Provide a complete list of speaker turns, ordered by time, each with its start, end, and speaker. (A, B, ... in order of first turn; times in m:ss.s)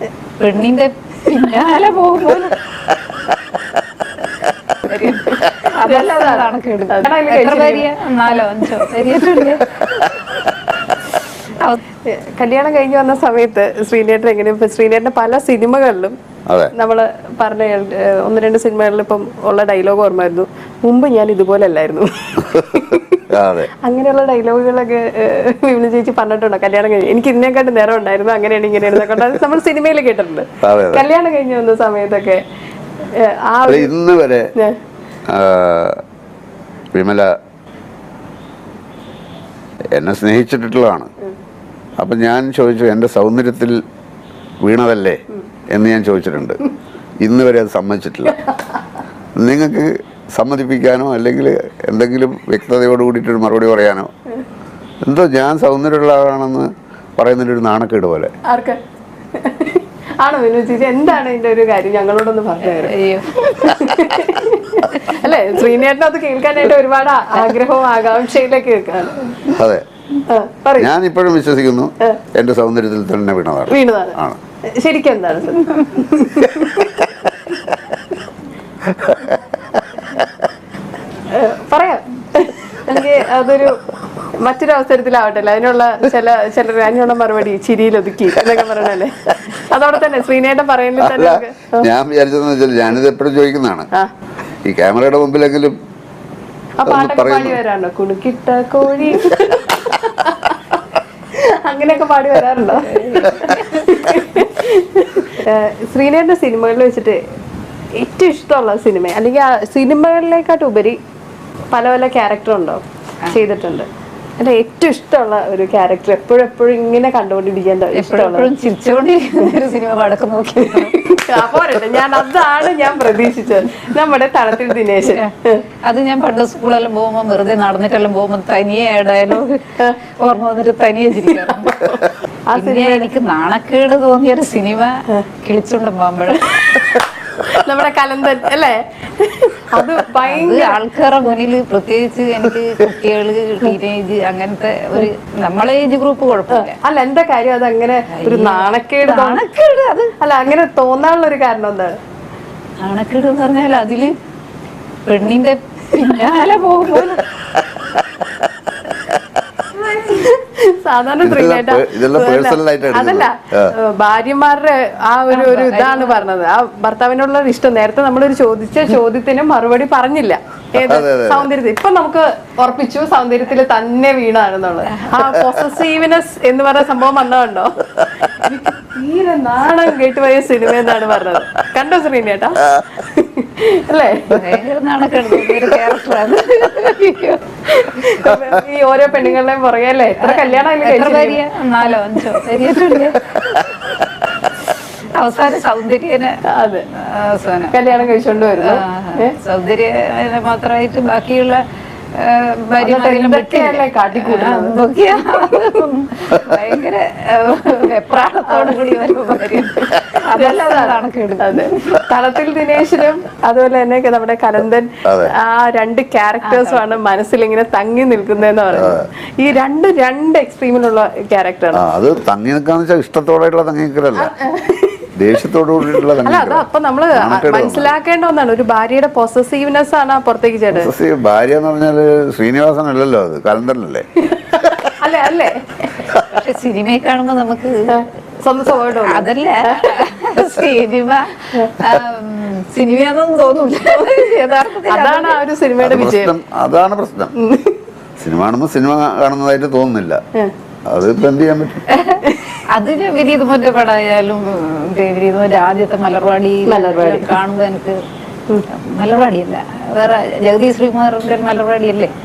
0:00.4-0:02.6 A
0:04.8-0:09.8 A
0:05.8-0:07.9 B
0:12.1-0:16.2 B
0:16.5-0:16.7 C
0:16.7-0:23.2 B
0:23.3-0:23.7 C
0:23.8-0:32.4 B
0:30.6-0:31.0 C
0:33.2-0:33.9 B
0:33.7-0:34.5 C
0:35.3-0:36.0 C
0:36.9-0:37.3 C
0:39.9-0:41.1 C
0:42.0-0:43.8 C
0:44.6-0:46.6 C
0:47.2-0:48.4 C
0:49.4-0:54.1 C
0:55.0-0:58.3 C
0:58.5-0:58.8 B
0:59.4-1:09.4 B
1:02.6-1:03.4 A
1:05.0-1:05.2 A
1:09.5-1:09.8 C
1:10.3-1:10.9 B
1:10.8-1:14.4 C
1:13.7-1:17.0 B
1:18.9-1:19.4 C
1:21.3-1:23.8 B
1:24.4-1:31.9 B
1:31.0-1:33.9 C
1:34.6-1:35.8 C
1:36.8-1:40.7 B
1:36.8-1:37.6 C
1:41.4-1:47.2 B
1:42.8-1:44.1 A
1:48.0-1:51.0 B
1:51.7-1:53.9 B
1:54.4-1:58.5 B
1:57.9-2:01.0 A
2:00.8-2:05.6 B
2:05.8-2:12.0 A
2:11.3-2:13.1 B
2:12.5-2:16.8 A
2:17.4-2:20.8 B
2:20.2-2:26.8 A
2:26.5-2:29.4 B
2:28.1-2:30.1 A
2:30.2-2:31.9 B
2:32.8-2:34.1 A
2:35.0-2:37.2 A
2:37.7-2:38.4 C
2:39.8-2:57.8 B
2:41.2-2:43.7 C
2:45.3-2:46.3 A
2:50.8-2:51.5 C
2:58.3-3:04.4 B
3:04.2-3:07.4 A
3:07.7-3:11.4 B
3:08.3-3:08.6 C
3:10.2-3:13.5 A
3:15.2-3:16.4 A
3:16.5-3:16.9 B
3:16.9-3:18.0 A
3:17.7-3:19.4 B
3:18.6-3:21.6 A
3:22.1-3:32.0 A
3:22.8-3:24.8 B
3:28.5-3:41.8 B
3:35.0-3:35.3 C
3:36.4-3:37.0 A
3:38.7-3:39.0 C
3:41.7-3:44.3 C
3:44.2-3:45.1 B
3:45.2-3:47.9 C
3:46.0-3:50.9 B
3:50.7-3:54.1 C
3:54.3-3:56.0 B
3:56.2-3:57.9 A
3:57.9-3:59.9 B
3:59.0-4:05.4 A
4:03.9-4:06.3 B
4:05.8-4:07.3 C
4:07.4-4:07.8 B
4:08.2-4:10.2 C
4:10.8-4:11.8 C
4:11.9-4:18.0 A
4:12.2-4:12.6 B
4:16.6-4:17.4 B
4:18.7-4:22.1 A